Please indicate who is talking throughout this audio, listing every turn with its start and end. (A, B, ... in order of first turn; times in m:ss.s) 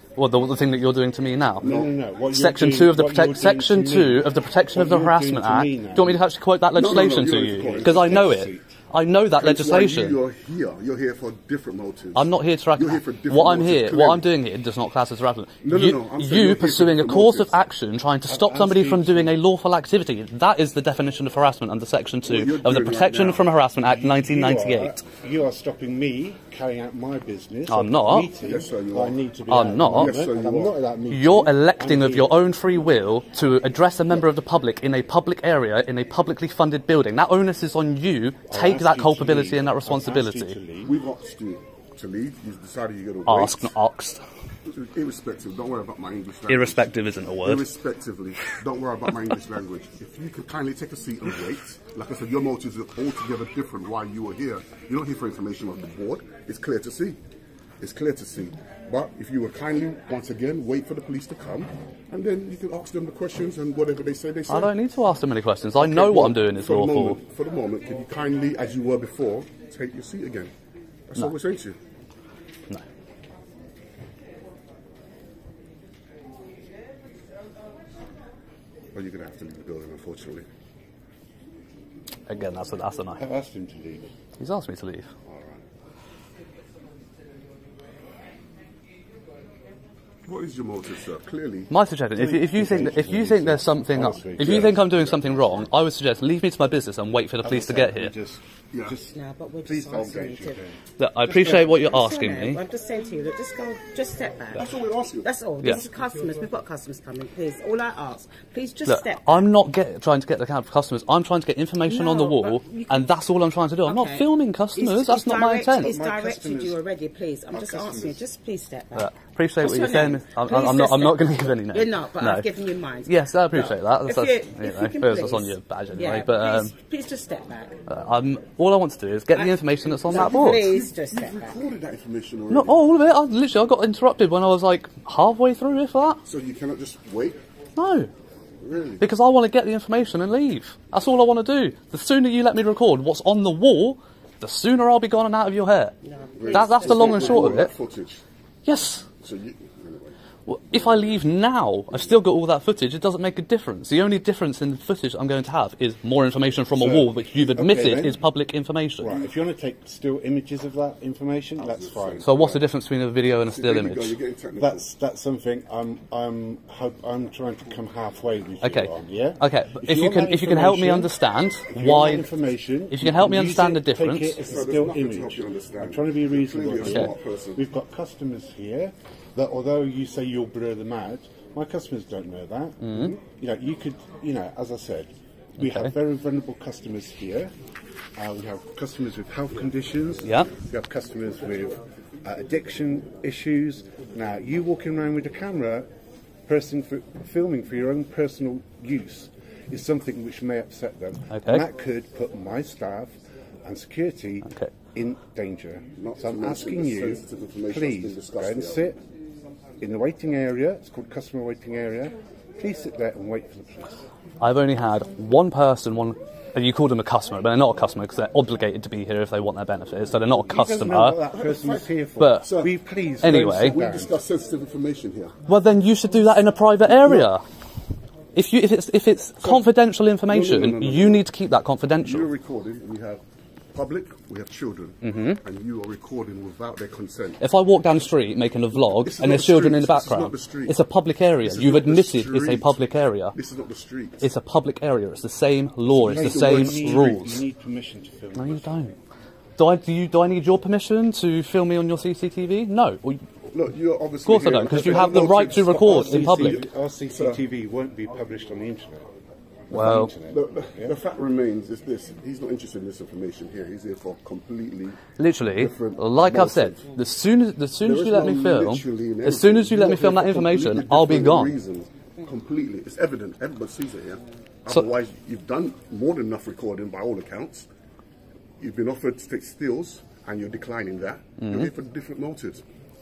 0:00.2-0:01.7 A
0:01.6-0:06.2 B
0:01.6-0:01.9 C
0:02.3-0:10.2 A
0:06.7-0:08.3 C
0:07.7-0:08.8 B
0:09.4-0:14.3 C
0:12.2-0:25.0 A
0:15.6-0:17.5 C
0:18.3-0:19.4 B
0:22.3-0:23.5 C
0:23.8-0:32.3 B
0:27.7-0:28.3 A
0:28.4-0:29.2 C
0:29.5-0:30.2 A
0:29.9-0:30.8 C
0:31.1-0:40.6 A
0:38.5-0:41.0 B
0:40.8-0:43.7 C
0:43.3-0:44.2 A
0:44.7-0:46.9 C
0:46.5-0:47.7 A
0:47.4-0:57.2 C
0:57.8-1:04.7 C
1:04.5-1:07.2 A
1:05.8-1:10.5 C
1:11.1-1:11.8 C
1:18.9-1:20.5 C
1:22.3-1:23.2 A
1:23.2-1:24.1 B
1:24.4-1:25.1 A
1:25.3-1:25.6 C
1:30.3-1:31.7 C
1:31.7-1:38.1 A
1:32.2-1:35.4 B
1:34.4-1:35.7 C
1:37.4-1:41.8 B
1:38.7-1:39.0 C
1:39.1-1:40.6 D
1:41.0-1:42.6 A
1:41.3-1:44.7 D
1:44.6-1:45.3 C
1:45.2-1:49.5 D
1:48.9-1:55.9 A
1:51.8-1:53.1 D
1:53.8-2:07.8 D
1:55.8-1:56.8 B
1:57.5-1:58.2 B
1:59.0-2:02.5 A
2:03.1-2:06.7 A
2:07.9-2:10.7 A
2:09.3-2:11.6 D
2:10.0-2:12.8 C
2:12.5-2:16.2 A
2:16.2-2:17.4 C
2:17.8-2:18.1 A
2:18.6-2:19.1 C
2:19.0-2:25.9 A
2:26.0-2:27.4 D
2:26.4-2:28.2 C
2:26.5-2:27.7 A
2:28.7-2:29.1 A
2:29.2-2:30.1 C
2:30.5-2:39.1 A
2:30.7-2:31.2 C
2:36.8-2:38.2 B
2:39.0-2:42.3 B
2:41.6-2:42.6 C
2:42.2-2:44.2 A
2:43.5-2:44.9 C
2:44.6-2:51.1 B
2:48.6-2:52.3 A
2:51.7-3:07.5 B
2:52.9-2:54.4 A
2:54.4-2:57.6 C
2:56.8-2:57.1 A
3:02.8-3:03.2 A
3:05.6-3:05.9 A
3:08.2-3:15.9 B
3:10.2-3:10.5 A
3:16.5-3:29.0 B
3:21.3-3:21.6 A
3:26.0-3:28.9 C
3:29.8-3:34.0 B
3:34.4-3:41.2 A
3:40.4-3:44.2 B
3:41.3-3:45.3 C
3:42.2-3:42.6 A
3:43.2-3:43.8 A
3:45.5-3:47.4 A
3:47.0-3:47.3 C
3:48.4-3:52.3 A
3:50.3-3:51.2 C
3:52.0-3:57.4 C
3:55.0-3:55.4 A
3:57.4-4:03.4 A
3:58.8-4:00.8 C
4:01.4-4:04.3 C
4:04.2-4:07.4 A
4:05.9-4:07.2 C
4:06.1-4:08.8 B
4:08.4-4:08.9 A
4:09.6-4:13.2 A
4:13.5-4:17.4 C
4:14.3-4:16.6 A
4:15.4-4:19.1 B
4:19.7-4:21.0 B
4:19.7-4:20.1 A
4:19.7-4:25.0 C
4:25.2-4:31.6 A
4:25.6-4:26.9 C
4:27.8-4:37.7 C
4:38.6-4:42.6 C
4:41.4-4:41.7 A